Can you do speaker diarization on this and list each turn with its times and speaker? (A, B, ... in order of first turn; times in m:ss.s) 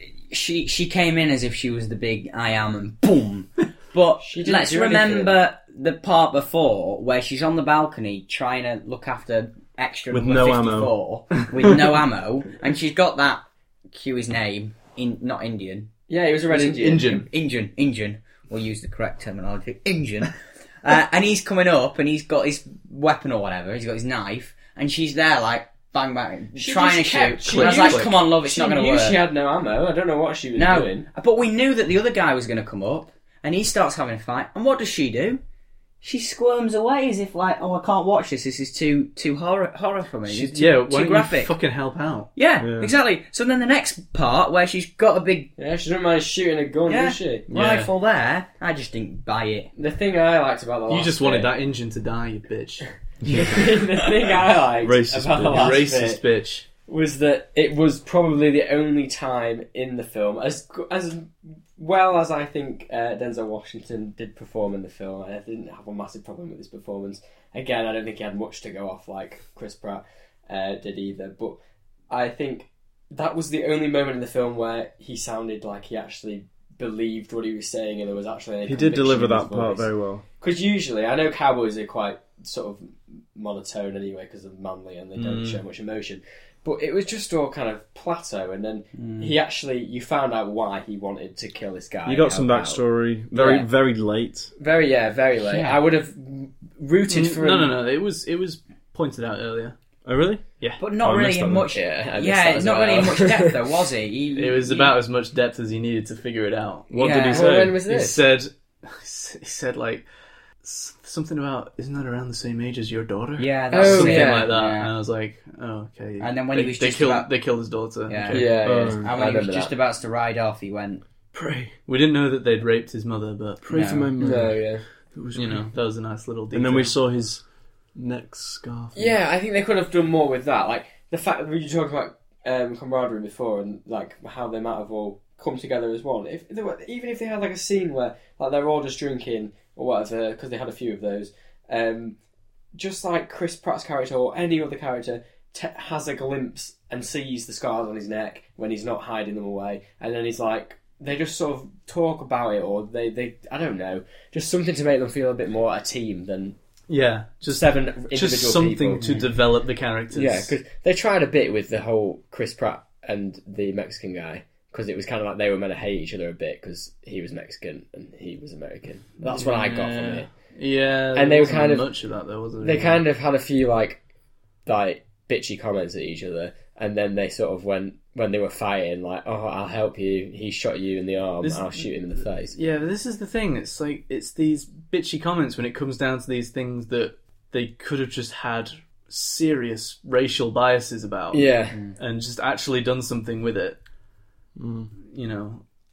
0:00.3-0:15.9 A
0:04.2-0:05.4 B
0:10.1-0:10.9 C
0:16.1-0:17.2 B
0:16.5-0:17.3 D
0:17.2-0:29.3 A
0:26.6-0:31.1 B
0:27.5-0:28.1 D
0:30.6-0:35.4 A
0:36.0-0:41.6 A
0:40.3-0:42.3 D
0:42.4-0:45.5 A
0:42.6-0:42.9 C
0:45.6-0:47.4 B
0:46.9-0:49.7 A
0:47.5-0:47.9 D
0:49.8-0:51.5 B
0:50.9-0:52.9 D
0:53.2-0:53.6 C
0:53.3-0:56.2 B
0:54.8-0:55.9 C
0:55.5-0:56.7 D
0:56.9-1:11.6 B
1:12.1-1:19.9 B
1:18.6-1:20.2 C
1:20.4-1:33.7 B
1:25.2-1:25.6 D
1:29.0-1:29.3 A
1:32.0-1:34.5 C
1:34.6-1:37.8 B
1:35.4-1:35.8 A
1:37.1-1:39.8 D
1:40.0-1:40.4 C
1:40.8-1:44.9 A
1:41.0-1:41.7 C
1:41.7-1:43.7 B
1:44.4-1:46.9 D
1:46.9-1:47.8 C
1:47.0-1:47.5 A
1:47.3-1:48.2 B
1:47.8-1:50.1 D
1:50.6-1:58.9 D
1:53.4-1:54.9 A
1:53.7-1:54.5 B
1:56.2-1:57.3 A
1:58.1-2:01.0 A
1:58.3-1:59.7 B
1:58.6-1:59.1 C
2:01.3-2:01.7 C
2:01.9-2:03.6 D
2:03.6-2:05.7 C
2:03.7-2:04.1 A
2:04.2-2:04.8 B
2:05.3-2:07.0 D
2:06.5-2:07.4 C
2:08.0-2:09.2 C
2:09.0-2:22.2 B
2:22.7-2:36.6 B
2:36.9-2:40.6 D
2:37.5-2:39.2 B
2:39.0-2:39.3 A
2:40.1-2:50.3 B
2:49.2-2:53.0 D
2:51.1-2:51.9 B
2:52.6-2:54.0 B
2:54.6-3:02.6 B
3:01.4-3:13.8 D
3:11.3-3:11.8 B
3:14.6-3:14.9 C
3:15.0-3:15.6 D